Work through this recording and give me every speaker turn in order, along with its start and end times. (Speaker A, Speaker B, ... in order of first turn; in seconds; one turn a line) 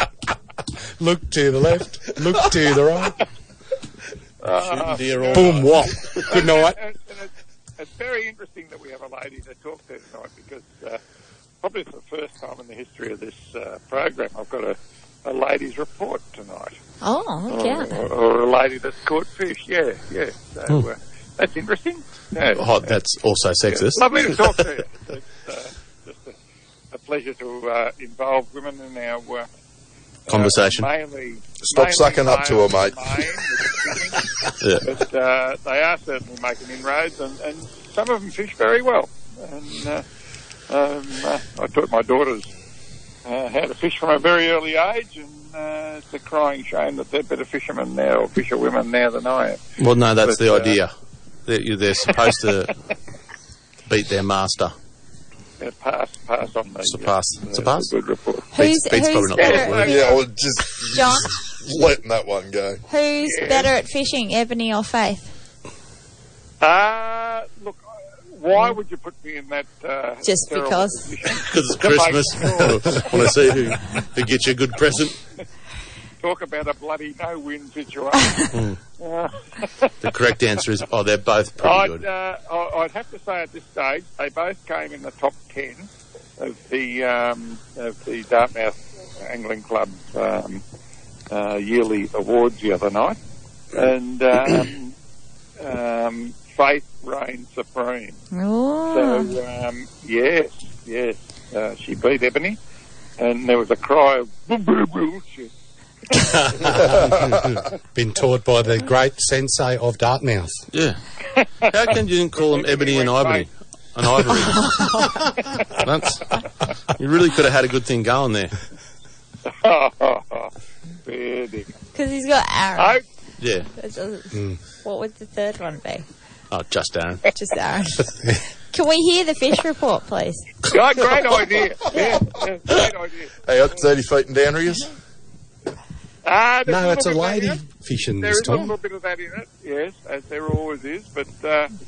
Speaker A: 1.0-3.2
Speaker B: 4.4-5.6
Speaker C: 4.5-6.3
Speaker A: 5.3-6.8
Speaker B: 6.2-11.0
Speaker B: 11.6-16.8
Speaker D: 17.0-17.9
Speaker B: 17.5-22.9
Speaker C: 22.5-24.6
Speaker B: 23.7-26.4
Speaker B: 26.9-29.5
Speaker B: 30.3-34.2
Speaker C: 30.3-30.9
Speaker E: 31.6-33.5
Speaker C: 34.6-34.9
Speaker B: 34.8-40.0
Speaker B: 40.7-42.5
Speaker B: 43.2-49.6
Speaker C: 49.8-50.9
Speaker B: 50.2-50.8
Speaker C: 51.5-52.8
Speaker B: 52.1-52.3
Speaker C: 53.9-54.7
Speaker B: 55.6-58.5
Speaker C: 56.9-57.9
Speaker C: 58.5-59.9
Speaker D: 58.5-60.2
Speaker B: 59.3-60.2
Speaker E: 59.8-62.8
Speaker D: 60.9-61.4
Speaker D: 62.9-65.3
Speaker B: 63.2-63.7
Speaker B: 66.6-73.4
Speaker D: 70.2-71.1
Speaker C: 71.4-75.2
Speaker B: 76.2-78.5
Speaker C: 78.5-78.8
Speaker B: 79.0-79.9
Speaker C: 80.0-82.0
Speaker B: 81.6-90.6
Speaker B: 91.3-93.2
Speaker B: 93.7-94.9
Speaker B: 95.6-98.2
Speaker D: 98.3-99.3
Speaker B: 98.9-102.6
Speaker B: 103.2-105.5
Speaker A: 106.6-110.7
Speaker C: 110.7-111.0
Speaker C: 111.7-114.8
Speaker B: 112.3-113.5
Speaker D: 114.6-115.1
Speaker C: 115.8-116.4
Speaker C: 116.9-118.6
Speaker B: 119.5-120.5
Speaker B: 121.0-121.8
Speaker D: 122.0-123.0
Speaker B: 122.8-123.0
Speaker C: 123.4-123.7
Speaker D: 123.8-126.0
Speaker A: 124.3-124.6
Speaker C: 126.5-127.3
Speaker D: 127.3-128.1
Speaker D: 128.7-130.5
Speaker B: 130.7-133.3
Speaker E: 133.4-134.9
Speaker B: 136.2-137.6
Speaker A: 136.7-138.7
Speaker B: 138.2-141.7